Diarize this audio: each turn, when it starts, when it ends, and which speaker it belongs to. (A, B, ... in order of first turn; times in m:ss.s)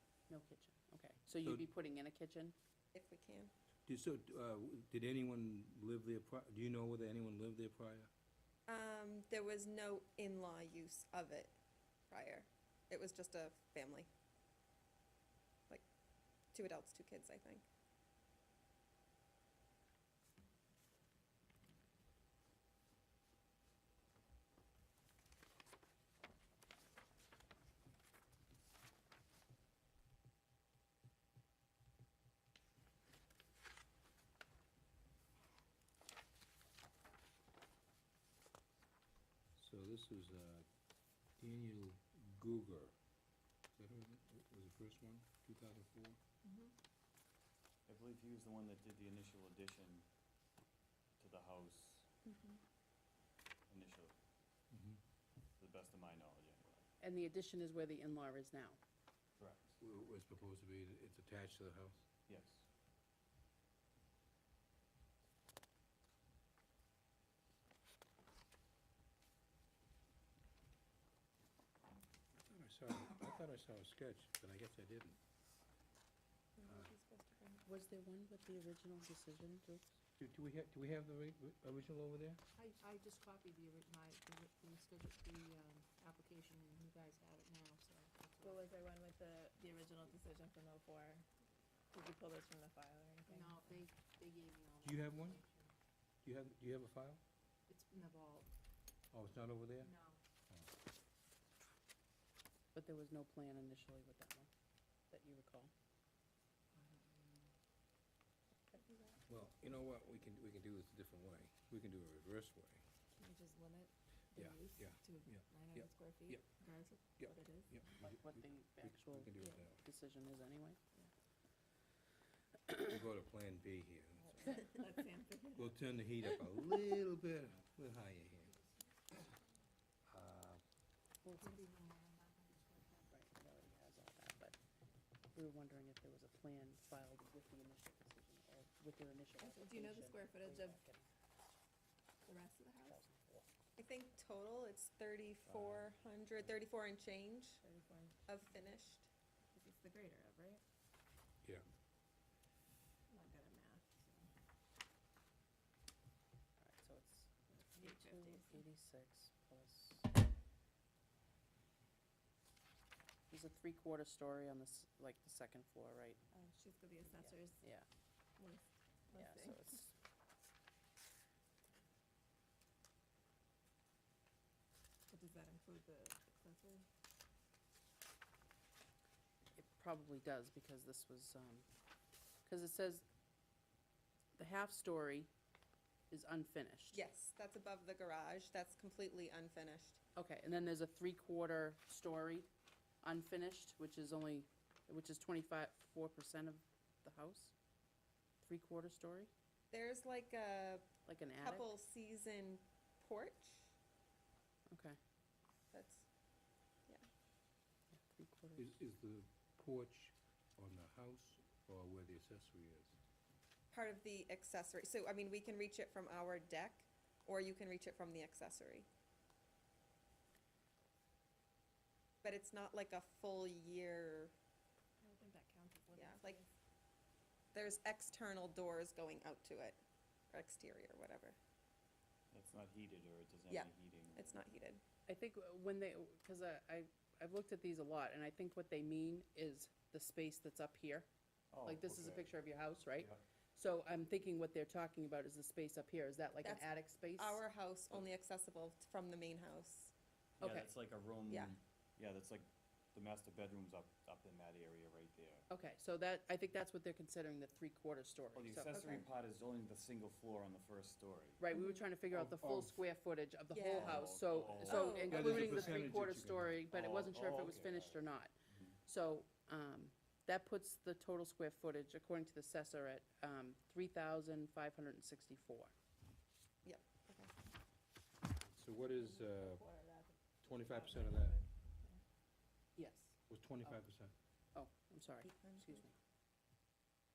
0:00.3-0:02.6 A
0:01.4-0:01.7 B
0:02.9-0:03.5 C
0:03.9-0:08.1 B
0:08.7-0:11.6 C
0:12.1-0:14.1 C
0:16.5-0:17.6 C
0:39.6-0:40.7 B
0:41.4-0:43.0 B
0:43.7-0:46.2 B
0:46.4-0:46.7 D
0:47.9-0:50.1 E
0:51.2-0:52.1 E
0:53.7-0:54.2 E
0:54.7-0:55.0 B
0:55.6-0:56.9 E
0:57.0-0:58.8 A
0:59.4-0:59.8 E
0:59.8-1:02.0 B
1:02.3-1:02.6 E
1:12.4-1:15.2 B
1:16.6-1:17.6 C
1:17.6-1:20.0 A
1:20.2-1:22.4 B
1:22.6-1:28.7 F
1:28.4-1:31.3 D
1:31.9-1:33.6 D
1:33.3-1:35.7 F
1:34.8-1:35.4 B
1:36.2-1:37.2 B
1:37.7-1:38.5 F
1:39.1-1:39.9 B
1:39.8-1:40.2 F
1:42.7-1:44.5 A
1:45.1-1:45.7 A
1:46.8-1:47.4 F
1:48.7-1:49.2 D
1:49.3-1:52.8 B
1:53.1-1:57.8 D
1:54.4-1:56.4 B
1:57.2-1:59.8 B
1:58.0-2:00.8 A
2:02.7-2:04.7 B
2:04.5-2:05.8 D
2:05.6-2:08.6 B
2:10.1-2:10.6 B
2:11.2-2:11.6 A
2:11.5-2:13.0 F
2:13.1-2:14.6 A
2:15.3-2:21.0 A
2:19.4-2:20.8 D
2:22.2-2:23.0 D
2:22.9-2:23.5 A
2:23.8-2:27.6 C
2:25.4-2:25.9 E
2:27.6-2:28.2 D
2:28.3-2:29.1 C
2:29.5-2:30.6 D
2:33.1-2:34.3 D
2:36.6-2:40.1 A
2:37.5-2:38.6 D
2:43.3-2:46.2 A
2:46.3-2:47.6 D
2:47.1-2:47.9 A
2:48.4-2:49.7 D
2:49.1-2:49.9 A
2:55.1-2:56.9 D
2:59.6-3:01.7 A
3:02.5-3:03.0 A
3:04.4-3:05.3 A
3:06.1-3:07.0 A
3:06.9-3:10.0 C
3:10.2-3:12.5 A
3:13.0-3:17.5 A
3:18.4-3:19.3 A
3:19.7-3:20.9 C
3:21.1-3:21.7 A
3:21.4-3:23.7 C
3:24.7-3:25.0 A
3:25.7-3:26.1 C
3:27.9-3:28.8 A
3:28.6-3:33.0 B
3:33.7-3:38.9 C
3:42.2-3:44.3 C
3:45.0-3:46.5 D
3:45.9-3:46.4 C
3:47.5-3:49.8 C
3:50.3-3:51.4 C
3:52.3-3:54.4 E
3:53.5-3:54.8 C
3:55.1-4:01.1 A
4:01.5-4:02.3 E
4:01.6-4:07.4 A
4:03.0-4:03.2 E
4:06.4-4:09.9 C
4:10.4-4:15.5 E
4:10.4-4:10.7 A
4:11.3-4:11.6 C
4:15.5-4:19.0 A
4:18.3-4:21.4 E
4:21.4-4:28.3 A
4:21.5-4:21.8 C
4:22.1-4:22.8 B
4:23.5-4:24.1 C
4:23.8-4:25.6 E
4:24.7-4:25.8 C
4:25.0-4:26.6 B
4:26.7-4:28.0 E
4:28.8-4:35.7 A
4:36.6-4:37.3 C
4:38.4-4:39.6 B
4:38.9-4:42.0 D
4:40.4-4:41.4 B
4:42.8-4:43.8 A
4:43.3-4:44.1 B
4:44.6-4:46.0 A
4:45.2-4:45.8 C